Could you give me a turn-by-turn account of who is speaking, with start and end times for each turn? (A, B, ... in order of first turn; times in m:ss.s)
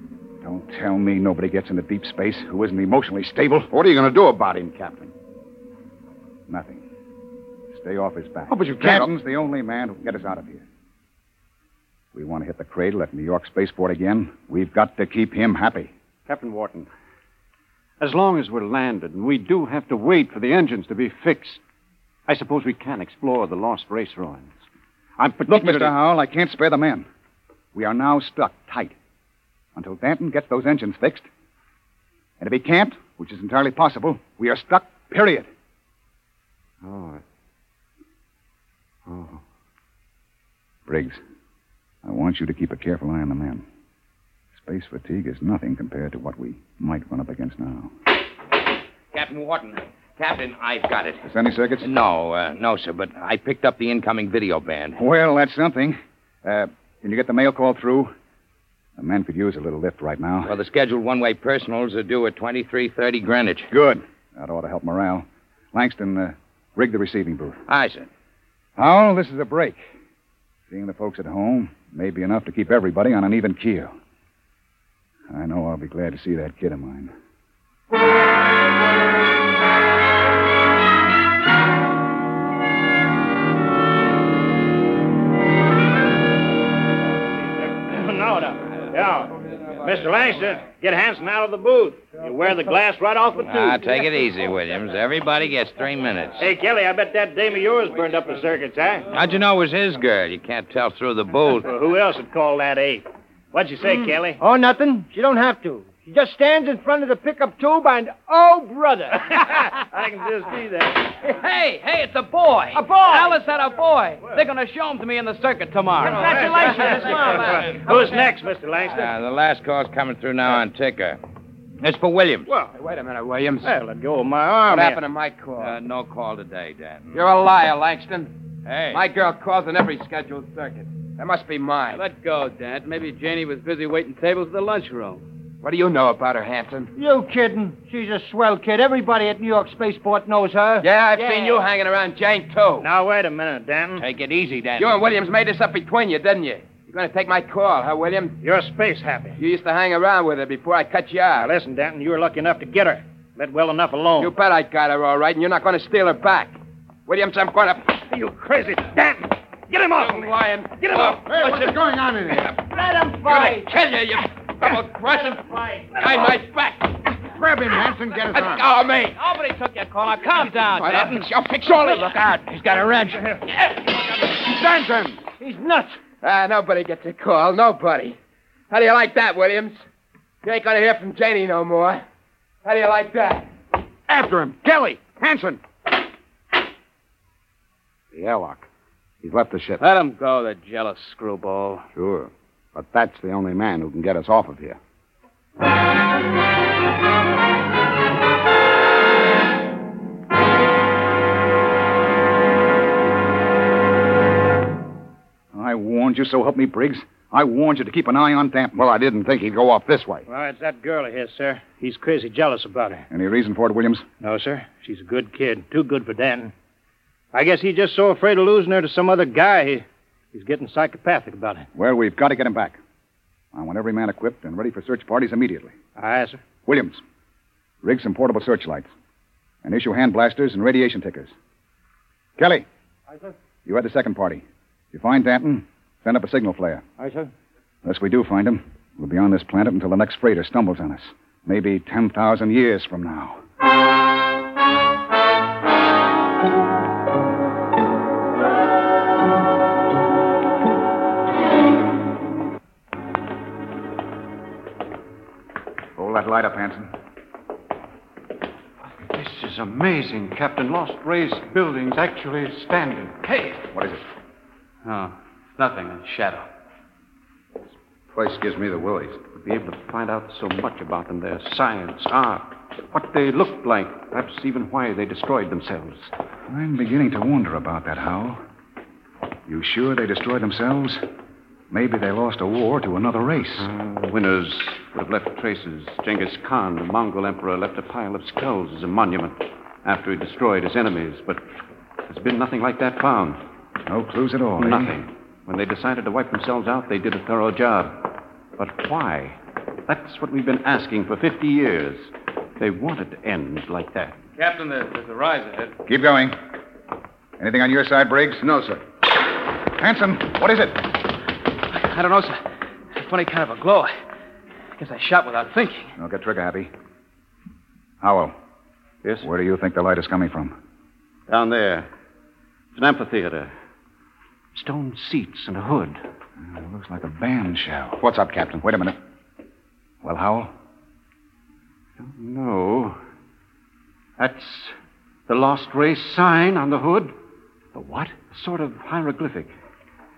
0:00.4-0:03.7 A
0:03.7-0:05.1 B
0:06.5-0:06.8 A
0:07.7-0:10.6 A
0:08.5-0:09.1 B
0:12.1-0:15.9 A
0:16.3-0:16.9 C
0:18.0-0:21.6 C
0:22.3-0:24.5 C
0:25.2-0:25.9 C
0:25.5-0:27.1 A
0:27.7-0:29.0 A
0:29.8-0:31.3 A
0:32.4-0:35.5 A
0:36.8-0:37.2 C
0:39.1-0:39.4 C
0:40.9-0:41.2 A
0:42.0-0:43.6 A
0:44.6-0:47.9 A
0:49.1-0:51.3 D
0:51.2-0:51.9 A
0:51.8-0:55.0 D
0:55.0-0:58.1 A
0:59.0-1:00.5 A
1:00.4-1:03.7 D
1:03.7-1:07.6 A
1:07.7-1:08.1 D
1:08.8-1:09.8 A
1:10.7-1:13.9 A
1:15.3-1:17.1 A
1:27.3-1:33.8 E
1:33.4-1:36.4 D
1:36.4-1:39.0 E
1:39.1-1:41.7 D
1:41.6-1:44.4 E
1:44.4-1:49.2 F
1:49.2-1:51.1 E
1:51.3-1:57.7 G
1:52.7-1:53.3 F
1:55.6-1:56.2 D
1:56.0-1:59.1 E
1:56.2-1:57.4 F
1:56.2-1:57.0 H
1:58.9-2:01.2 D
2:01.8-2:02.5 D
2:02.7-2:03.7 H
2:03.6-2:05.0 E
2:04.7-2:05.8 H
2:05.6-2:07.2 D
2:07.1-2:08.3 H
2:08.7-2:09.0 D
2:08.9-2:12.0 H
2:11.9-2:15.2 G
2:15.6-2:16.9 H
2:17.0-2:20.9 F
2:20.8-2:22.9 H
2:22.8-2:24.0 E
2:24.0-2:25.0 D
2:24.8-2:28.4 H
2:28.4-2:29.4 E
2:29.4-2:31.5 H
2:31.4-2:34.3 E
2:34.2-2:36.5 H
2:37.1-2:38.0 H
2:38.0-2:41.3 E
2:40.0-2:41.7 H
2:41.2-2:42.6 B
2:42.7-2:43.7 F
2:43.2-2:45.4 H
2:45.3-2:46.1 E
2:46.0-2:47.1 H
2:47.3-2:48.6 B
2:48.3-2:49.2 H
2:49.2-2:53.2 G
2:50.5-2:52.4 H
2:54.4-2:55.3 B
2:55.4-2:56.0 F
2:56.2-2:58.2 H
2:58.7-2:59.8 H
3:00.4-3:02.0 H
3:02.6-3:03.5 H
3:04.1-3:05.6 B
3:08.1-3:08.7 B
3:09.2-3:09.8 B
3:09.8-3:11.9 G
3:12.0-3:14.8 B
3:25.5-3:28.8 A
3:28.8-3:30.2 B
3:30.3-3:33.1 E
3:33.1-3:34.1 A
3:34.2-3:36.5 E
3:37.3-3:41.7 E
3:41.8-3:42.8 A
3:43.5-3:45.8 A
3:46.0-3:46.4 E
3:46.7-3:47.0 A
3:47.8-3:48.9 A
3:49.6-3:51.3 A
3:52.4-3:52.7 A
3:53.7-3:56.8 A
3:57.0-3:57.3 F
3:57.8-4:03.4 A
4:16.0-4:16.9 A
4:18.9-4:23.5 C
4:23.7-4:24.0 A
4:24.8-4:26.5 G
4:28.1-4:29.3 B
4:29.3-4:36.1 C
4:36.5-4:38.4 A
4:39.5-4:41.0 A
4:41.7-4:43.7 A
4:43.6-4:51.4 C
4:52.1-4:53.4 C
4:53.9-4:55.0 A
4:54.6-5:04.2 C
5:04.4-5:05.8 G
5:05.9-5:06.4 A
5:07.4-5:08.4 A
5:08.4-5:08.8 B
5:09.8-5:10.8 A
5:11.7-5:13.9 G
5:14.8-5:15.9 G
5:16.0-5:16.7 A
5:18.0-5:18.4 A
5:19.2-5:20.6 A
5:21.3-5:21.9 C
5:22.7-5:23.5 C
5:24.5-5:26.0 C
5:26.4-5:28.0 A
5:28.0-5:28.6 B
5:28.6-5:29.0 A
5:30.0-5:30.5 A
5:32.0-5:33.0 C
5:34.2-5:34.7 C
5:35.3-5:37.1 C
5:37.7-5:39.5 C